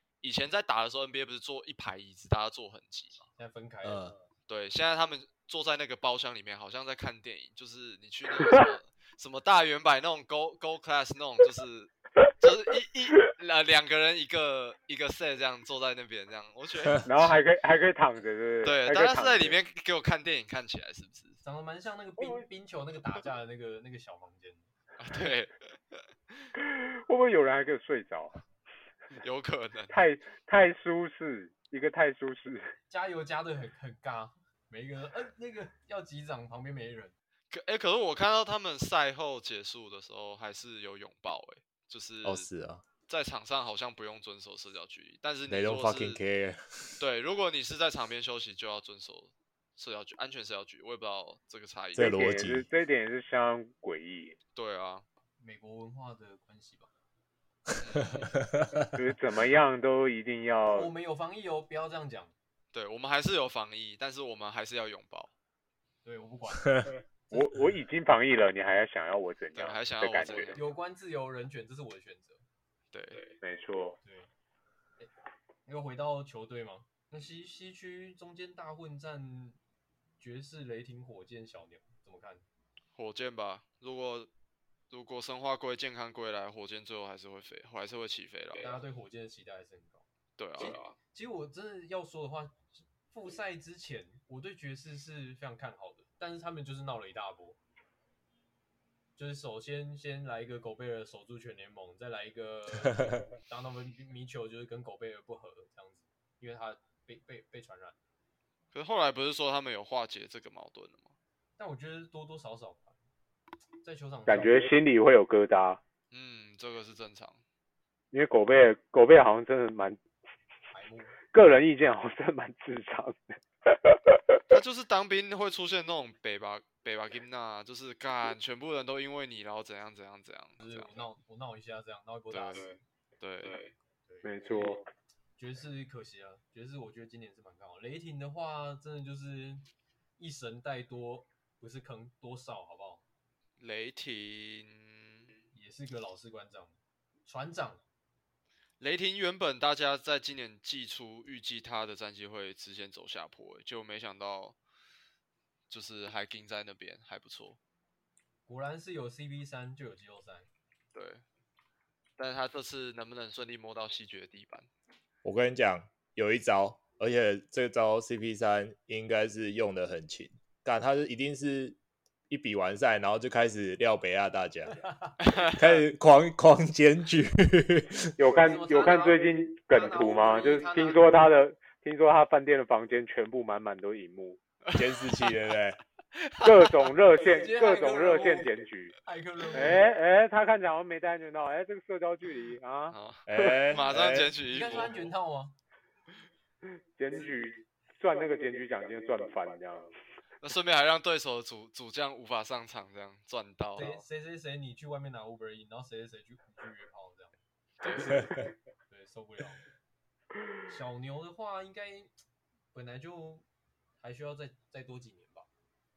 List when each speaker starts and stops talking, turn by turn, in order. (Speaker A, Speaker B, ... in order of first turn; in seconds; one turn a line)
Speaker A: 0.2-3.3
Speaker B: 3.4-4.1
Speaker C: 3.8-4.1
Speaker A: 4.5-17.4
Speaker D: 17.0-19.6
Speaker A: 18.6-21.4
Speaker B: 21.4-24.7
Speaker A: 25.0-26.5
Speaker D: 26.6-28.4
Speaker A: 29.2-30.0
Speaker D: 29.9-32.7
Speaker B: 32.9-37.1
Speaker A: 37.5-42.5
Speaker C: 42.2-42.8
Speaker A: 43.1-46.2
Speaker C: 45.5-47.0
Speaker A: 47.0-52.3
Speaker C: 52.0-52.7
Speaker D: 52.0-54.4
Speaker A: 54.5-55.0
Speaker B: 55.4-56.9
Speaker A: 57.8-58.3
Speaker C: 58.1-58.9
Speaker D: 58.9-60.9
Speaker B: 60.7-62.3
Speaker A: 62.7-65.3
Speaker B: 66.0-67.0
Speaker C: 66.6-66.9
Speaker D: 67.3-70.6
Speaker A: 69.5-70.7
Speaker B: 70.5-72.4
Speaker A: 72.9-73.3
Speaker D: 73.4-74.0
Speaker B: 74.0-74.3
Speaker B: 75.7-79.6
Speaker B: 80.2-82.4
Speaker A: 83.0-84.3
Speaker A: 84.9-88.8
Speaker B: 88.6-90.0
Speaker A: 90.4-90.8
Speaker B: 90.6-97.6
Speaker B: 99.2-108.0
Speaker A: 108.7-111.1
Speaker B: 111.6-113.0
Speaker B: 113.8-114.7
Speaker D: 114.3-115.8
Speaker A: 116.1-117.4
Speaker D: 118.1-120.0
Speaker B: 120.7-121.2
Speaker D: 121.3-124.4
Speaker A: 124.5-131.1
Speaker B: 130.6-132.8
Speaker A: 132.3-132.7
Speaker A: 133.2-133.7
Speaker B: 134.1-134.8
Speaker D: 134.2-134.8
Speaker B: 135.4-139.6
Speaker B: 140.2-143.0
Speaker A: 143.6-145.3
Speaker B: 145.5-147.8
Speaker A: 148.8-154.6
Speaker A: 155.7-157.6
Speaker B: 158.5-160.5
Speaker A: 160.9-161.2
Speaker A: 162.2-164.7
Speaker C: 165.2-171.8
Speaker C: 172.3-174.8
Speaker B: 174.7-175.2
Speaker A: 175.2-175.8
Speaker C: 175.4-178.1
Speaker D: 178.2-184.4
Speaker B: 178.3-181.2
Speaker A: 184.6-185.4
Speaker C: 184.7-185.8
Speaker A: 186.1-186.9
Speaker D: 186.4-188.9
Speaker B: 187.2-189.9
Speaker D: 189.5-193.6
Speaker A: 192.9-195.1
Speaker C: 193.3-194.3
Speaker B: 194.4-195.5
Speaker D: 197.0-199.9
Speaker A: 200.4-204.0
Speaker B: 203.8-209.7
Speaker A: 207.8-208.2
Speaker B: 210.7-212.1
Speaker B: 212.7-213.4
Speaker B: 214.0-215.5